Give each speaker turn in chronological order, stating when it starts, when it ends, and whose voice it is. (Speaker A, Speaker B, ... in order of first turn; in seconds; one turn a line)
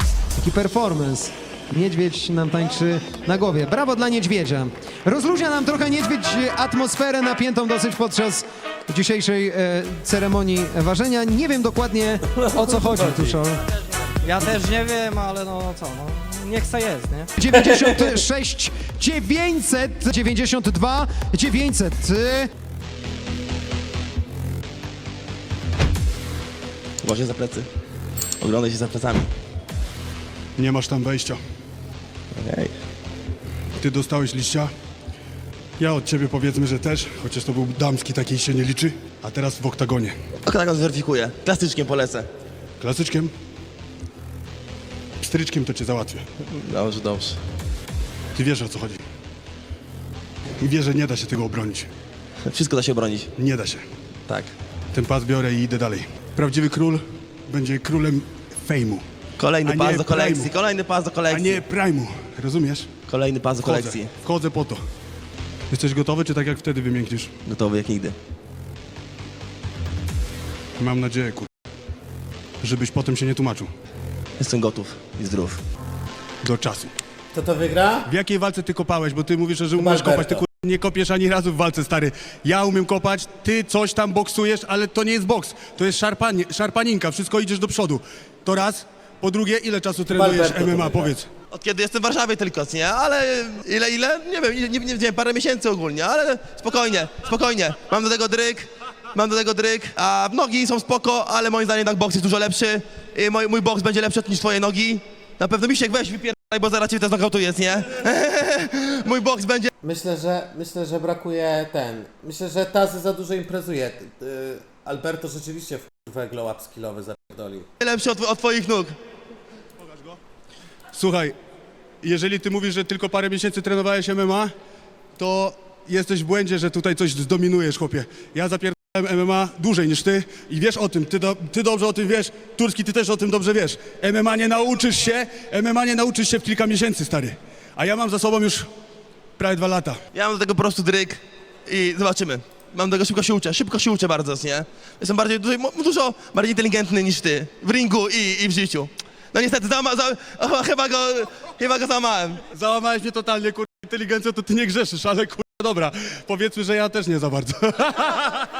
Speaker A: 0.4-13.6
Speaker B: 12.4-13.4
Speaker C: 14.2-17.3
Speaker A: 17.4-22.5
Speaker D: 27.0-27.7
Speaker D: 28.4-29.3
Speaker E: 30.6-31.4
Speaker D: 32.4-32.7
Speaker E: 33.8-34.7
Speaker E: 35.8-40.1
Speaker D: 40.4-42.3
Speaker E: 42.8-43.3
Speaker E: 45.2-46.2
Speaker D: 46.5-47.4
Speaker E: 48.4-49.0
Speaker E: 50.6-51.9
Speaker D: 52.5-53.3
Speaker E: 53.4-53.8
Speaker E: 54.9-59.0
Speaker D: 59.4-61.6
Speaker E: 59.6-60.5
Speaker E: 61.3-62.9
Speaker D: 63.1-64.1
Speaker E: 63.6-64.8
Speaker E: 65.7-67.3
Speaker D: 67.5-68.2
Speaker E: 70.8-71.5
Speaker E: 72.6-73.7
Speaker D: 74.4-75.6
Speaker E: 76.4-76.9
Speaker B: 77.3-78.1
Speaker E: 78.1-91.3
Speaker B: 79.8-80.4
Speaker B: 90.1-91.1
Speaker D: 91.5-109.7
Speaker B: 109.8-117.7
Speaker D: 117.8-119.0
Speaker E: 120.9-121.3
Speaker E: 122.0-124.5
Speaker E: 125.2-138.7
Speaker E: 139.4-140.0
Speaker D: 140.1-152.4
Speaker E: 152.5-158.4